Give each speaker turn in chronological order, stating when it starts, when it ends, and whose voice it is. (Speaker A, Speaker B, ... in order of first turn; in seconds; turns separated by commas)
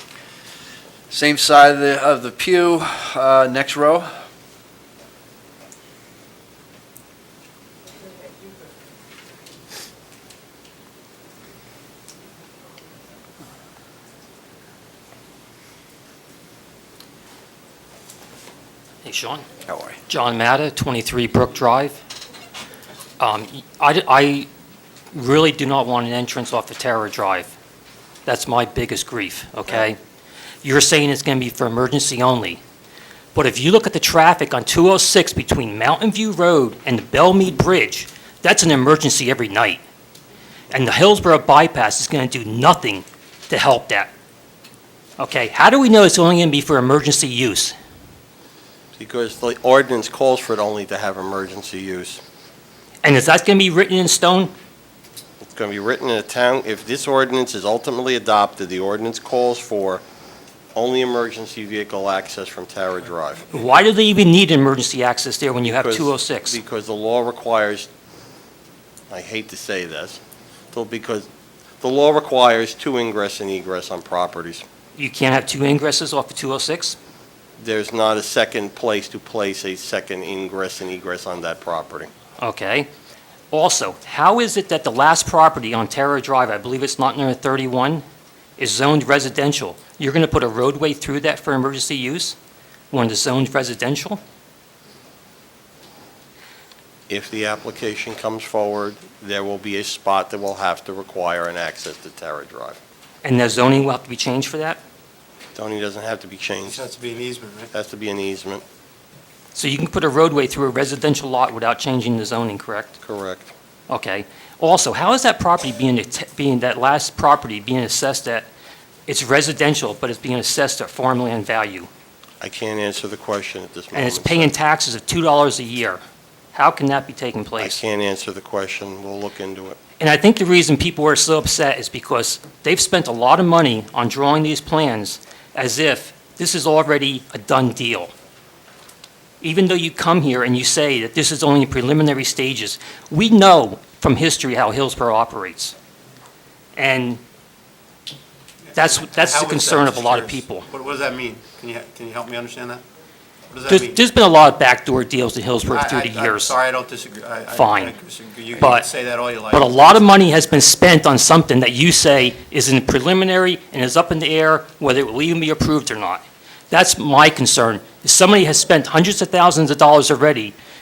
Speaker A: 1.1-4.1, Speaker B: 19.0-19.5, Speaker B: 20.1-22.0, Speaker B: 23.2-24.5, Speaker B: 25.1-27.5, Speaker B: 28.3-30.0, Speaker B: 30.6-32.6, Speaker B: 33.4-39.8, Speaker B: 40.7-44.1, Speaker B: 45.2-47.7, Speaker C: 49.0-52.2, Speaker B: 53.0-54.5, Speaker C: 55.5-60.0, Speaker C: 60.8-63.5, Speaker B: 63.5-66.6, Speaker C: 65.6-67.9, Speaker C: 69.1-70.2, Speaker C: 70.7-71.3, Speaker C: 71.8-74.7, Speaker B: 75.0-77.0, Speaker C: 77.6-82.1, Speaker B: 82.4-82.9, Speaker B: 83.5-88.0, Speaker B: 88.6-92.4, Speaker B: 92.9-94.2, Speaker C: 97.1-102.8, Speaker B: 103.2-104.8, Speaker C: 105.5-106.8, Speaker D: 106.7-107.7, Speaker C: 107.7-108.6, Speaker B: 109.5-113.0, Speaker C: 113.0-113.5, Speaker B: 113.9-118.5, Speaker B: 119.1-121.9, Speaker C: 122.4-124.5, Speaker B: 123.9-126.0, Speaker B: 126.5-127.8, Speaker C: 127.6-129.8, Speaker B: 130.0-138.1, Speaker B: 139.4-145.7, Speaker B: 146.8-147.2, Speaker D: 148.7-152.8, Speaker B: 148.8-150.7, Speaker D: 153.5-154.0, Speaker B: 153.7-156.6, Speaker D: 155.7-160.0, Speaker B: 157.5-158.0, Speaker B: 158.6-158.9, Speaker B: 159.5-170.6